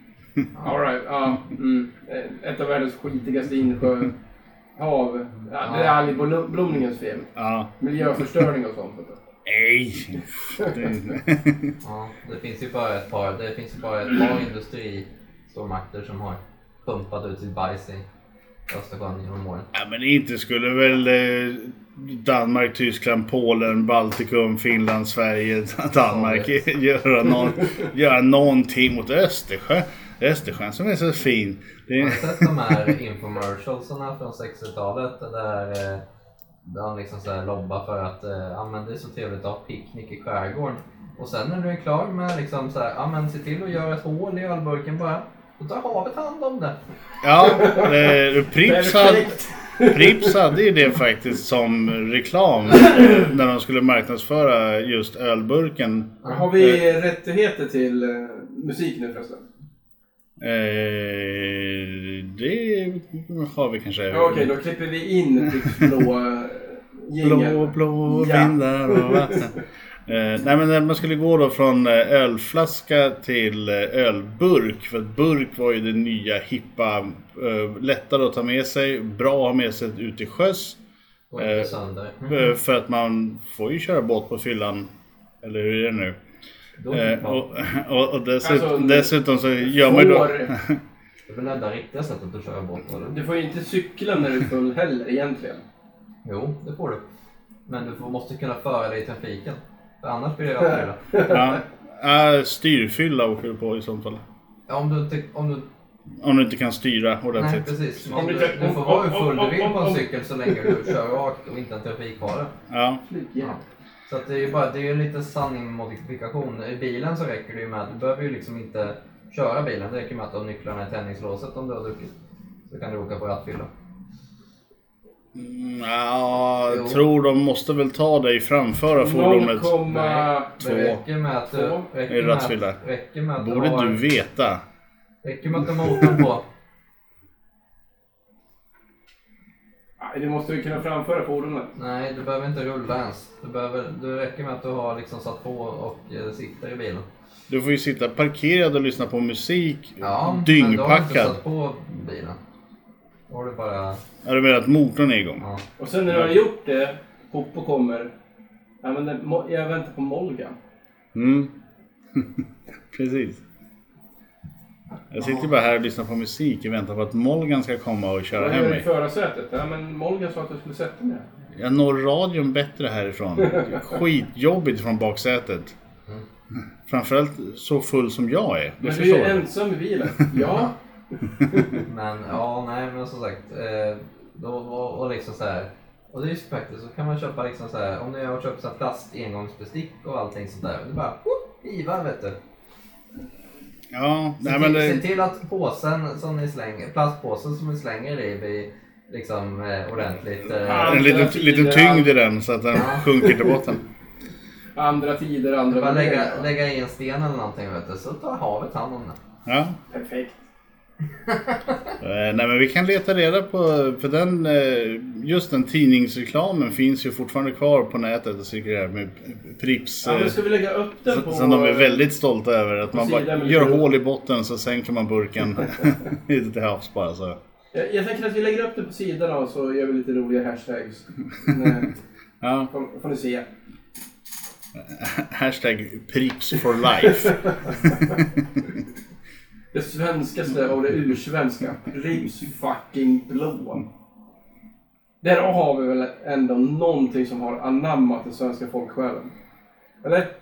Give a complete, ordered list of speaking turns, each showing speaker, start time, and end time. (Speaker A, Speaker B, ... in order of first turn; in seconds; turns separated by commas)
Speaker A: 0.6-4.1, Speaker A: 4.8-9.2, Speaker B: 5.6-6.0, Speaker C: 7.3-7.7, Speaker C: 9.4-11.8, Speaker A: 10.6-10.9, Speaker B: 11.8-18.0, Speaker B: 18.7-19.7, Speaker C: 19.7-32.9, Speaker B: 26.0-26.6, Speaker B: 32.0-36.0, Speaker B: 36.6-46.8, Speaker C: 47.2-56.8, Speaker A: 47.4-50.4, Speaker A: 56.2-59.5, Speaker C: 60.4-64.5, Speaker A: 64.1-69.5, Speaker C: 65.6-66.0, Speaker C: 67.2-69.5, Speaker C: 70.1-80.8, Speaker B: 81.3-82.5, Speaker C: 81.4-81.7, Speaker C: 82.3-84.9, Speaker C: 85.4-86.2, Speaker B: 86.8-87.4, Speaker C: 86.9-90.8, Speaker A: 88.4-90.5, Speaker B: 91.3-93.2, Speaker A: 93.1-95.6, Speaker B: 96.2-97.0, Speaker B: 97.7-101.0, Speaker A: 101.1-101.6, Speaker C: 101.2-104.2, Speaker B: 104.7-105.7, Speaker C: 106.2-108.4, Speaker B: 107.3-112.5, Speaker A: 108.1-110.9, Speaker C: 112.7-113.0, Speaker A: 113.1-113.6, Speaker B: 113.4-122.1, Speaker B: 122.7-123.7, Speaker C: 125.3-129.8, Speaker B: 126.7-127.0, Speaker A: 129.0-130.5, Speaker B: 129.9-134.0, Speaker C: 130.6-131.0, Speaker A: 131.5-131.8, Speaker C: 132.1-132.8, Speaker C: 133.4-134.6, Speaker B: 135.2-136.4, Speaker A: 140.0-141.7, Speaker B: 141.8-147.1, Speaker C: 147.5-151.4, Speaker B: 150.0-152.4, Speaker B: 153.3-154.0, Speaker C: 154.2-155.4, Speaker A: 155.8-158.1, Speaker C: 156.1-156.3, Speaker A: 158.8-160.6, Speaker C: 161.1-161.5, Speaker C: 162.1-162.4, Speaker C: 162.9-163.4, Speaker C: 165.1-168.8, Speaker B: 165.2-165.4, Speaker A: 168.3-171.2, Speaker C: 171.5-175.8, Speaker A: 173.4-173.7, Speaker C: 176.9-179.4, Speaker A: 178.8-180.7, Speaker A: 181.4-181.8, Speaker B: 181.8-192.3, Speaker C: 193.9-195.0, Speaker B: 194.4-201.1, Speaker A: 200.6-202.1, Speaker C: 200.7-203.8, Speaker B: 202.7-203.3, Speaker A: 204.8-206.5, Speaker B: 205.7-209.2, Speaker C: 209.4-209.8, Speaker A: 209.9-210.4, Speaker B: 211.3-211.9, Speaker C: 212.0-220.4, Speaker A: 220.0-222.0, Speaker C: 221.1-227.4, Speaker A: 222.9-223.8, Speaker A: 227.7-231.9, Speaker C: 232.4-232.7, Speaker A: 232.7-233.4, Speaker C: 234.8-238.4, Speaker A: 237.1-238.2, Speaker A: 239.7-243.8, Speaker A: 245.2-249.3, Speaker A: 250.0-250.3